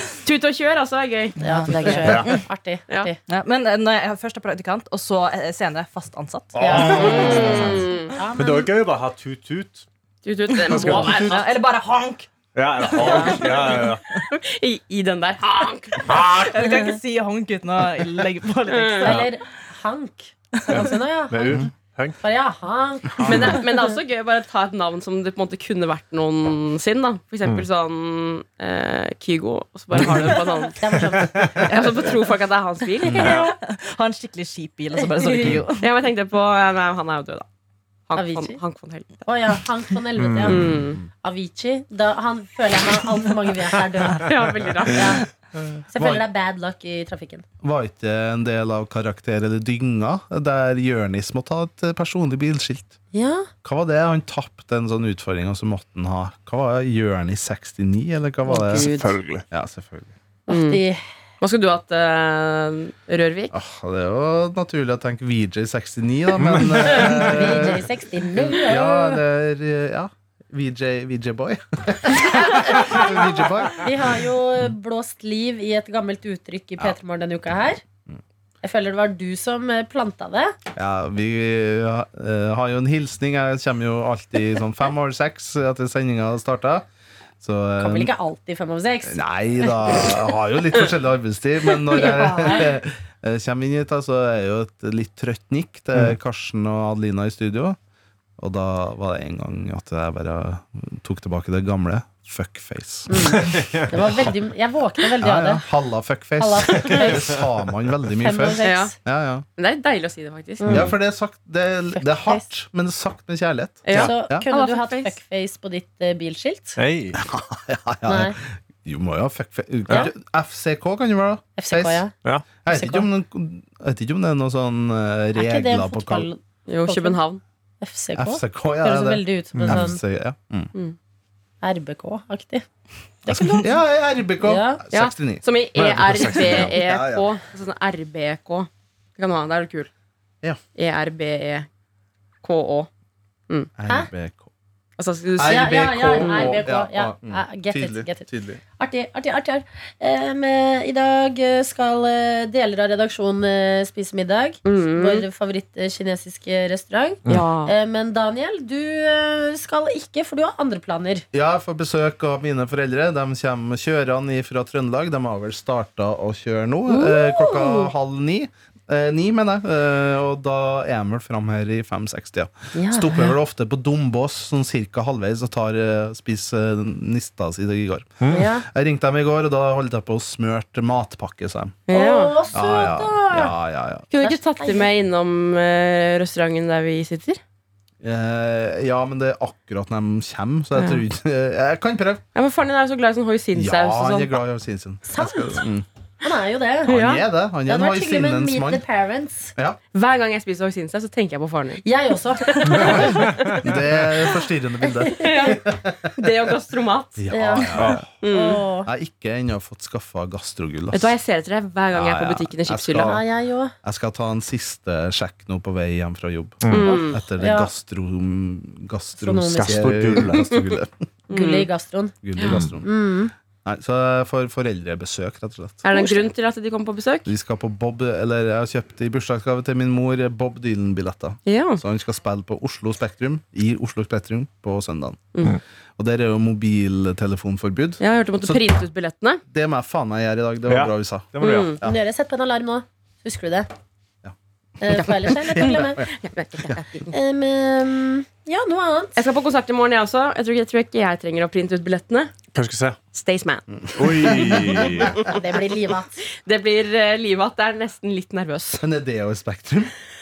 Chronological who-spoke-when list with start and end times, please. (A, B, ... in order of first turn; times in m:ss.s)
0:00.2-0:01.4 A
0:01.4-0:03.2 B
0:01.4-0:02.4 C
0:02.0-0:02.4 D
0:03.3-0:07.0 C
0:06.6-0:07.8 D
0:06.6-0:08.7 B
0:06.9-0:08.2 A
0:08.4-0:09.9 D
0:10.2-0:11.4 A
0:10.6-0:11.4 D
0:10.7-0:12.3 C
0:12.5-0:14.0 D
0:12.8-0:13.9 C
0:13.0-0:13.7 A
0:14.3-0:16.1 A
0:16.0-0:16.7 D
0:16.0-0:19.3 C
0:18.7-0:19.2 A
0:19.0-0:21.7 B
0:20.7-0:22.2 D
0:22.2-0:23.6 B
0:23.2-0:30.8 A
0:30.0-0:30.4 D
0:30.8-0:31.7 B
0:31.2-0:31.7 D
0:31.6-0:33.5 A
0:33.0-0:35.9 C
0:33.1-0:33.5 D
0:35.2-0:35.6 B
0:35.8-0:37.4 A
0:38.1-0:39.1 A
0:38.1-0:38.6 B
0:39.2-0:44.2 B
0:40.2-0:40.9 D
0:40.5-0:41.0 A
0:44.2-0:45.2 A
0:44.9-0:45.2 B
0:45.9-0:47.4 B
0:46.0-0:46.2 E
0:47.6-0:53.0 E
0:53.1-0:53.5 B
0:53.6-0:58.9 E
0:58.4-0:59.2 B
0:58.7-0:59.4 D
0:59.5-1:00.1 E
1:00.5-1:01.0 B
1:00.5-1:00.8 A
1:01.4-1:03.5 A
1:03.5-1:07.9 E
1:06.4-1:06.9 D
1:06.9-1:09.2 B
1:08.4-1:13.9 E
1:12.7-1:13.1 B
1:13.8-1:17.8 B
1:18.6-1:20.5 B
1:20.8-1:26.9 E
1:27.4-1:28.1 E
1:27.8-1:30.2 B
1:29.0-1:37.8 E
1:31.9-1:32.7 B
1:38.4-1:43.5 E
1:43.1-1:45.6 B
1:43.3-1:44.3 D
1:45.2-1:49.4 E
1:46.4-1:47.3 B
1:48.2-1:48.9 B
1:48.6-1:49.0 A
1:49.6-1:50.8 A
1:50.6-1:50.9 B
1:50.7-1:54.4 E
1:51.9-1:52.4 B
1:53.8-1:55.1 A
1:53.9-1:56.8 B
1:56.8-1:57.2 D
1:57.2-2:02.0 E
1:58.1-1:58.4 B
2:01.6-2:02.1 B
2:02.6-2:06.3 E
2:02.7-2:03.0 B
2:05.4-2:07.2 B
2:06.7-2:07.4 A
2:07.8-2:10.0 B
2:08.2-2:10.7 E
2:09.5-2:09.9 D
2:11.6-2:12.6 B
2:13.2-2:13.7 B
2:13.3-2:17.3 E
2:14.4-2:14.8 B
2:14.9-2:19.9 A
2:15.8-2:16.7 D
2:20.7-2:21.7 A
2:22.4-2:22.9 A
2:23.8-2:24.5 E
2:25.0-2:26.6 A
2:25.4-2:28.6 E
2:25.4-2:41.2 B
2:34.6-2:35.2 A
2:37.3-2:37.7 A
2:41.3-3:01.8 E
2:46.9-2:47.9 B
2:52.7-2:53.4 B
2:58.2-2:58.5 D
2:58.3-2:58.6 B
3:01.9-3:02.4 A
3:01.9-3:03.5 B
3:02.5-3:04.1 E
3:04.1-3:07.4 A
3:04.2-3:04.9 B
3:08.0-3:12.2 E
3:10.8-3:11.0 A
3:12.4-3:14.4 A
3:13.5-3:15.9 E
3:15.1-3:15.6 B
3:16.2-3:17.0 B
3:16.9-3:18.8 E
3:16.9-3:17.2 A
3:17.6-3:19.5 B
3:19.9-3:21.8 A
3:21.8-3:23.2 B
3:22.4-3:23.5 A
3:22.8-3:23.6 D
3:22.8-3:26.1 E
3:25.0-3:25.5 B
3:25.2-3:27.2 A
3:27.2-3:28.1 E
3:27.3-3:28.9 B
3:27.8-3:28.0 D
3:28.2-3:28.6 A
3:28.9-3:31.1 E
3:30.9-3:33.2 A
3:31.9-3:33.2 E
3:33.0-3:33.7 B
3:33.8-3:41.0 E
3:36.6-3:36.9 D
3:36.7-3:37.2 A
3:36.8-3:37.7 B
3:39.2-3:40.0 B
3:39.5-3:40.5 D
3:41.3-3:41.7 A
3:41.3-3:42.2 B
3:42.2-3:42.9 E
3:42.8-3:43.3 B
3:43.6-3:45.9 E
3:45.8-3:47.3 A
3:45.9-3:46.2 B
3:47.2-3:55.3 E
3:51.4-3:51.8 A
3:56.0-3:58.6 E
3:58.0-3:59.4 A
3:59.5-4:02.0 E
4:00.7-4:01.7 D
4:01.4-4:01.8 A
4:01.8-4:03.7 B
4:04.8-4:06.0 B
4:04.9-4:07.1 A
4:05.6-4:06.1 E
4:07.1-4:09.2 B
4:09.2-4:12.3 A
4:12.5-4:13.0 D
4:13.1-4:14.4 A
4:14.0-4:15.2 D
4:14.0-4:15.1 E
4:15.3-4:16.2 B
4:16.3-4:18.8 A
4:18.8-4:19.9 E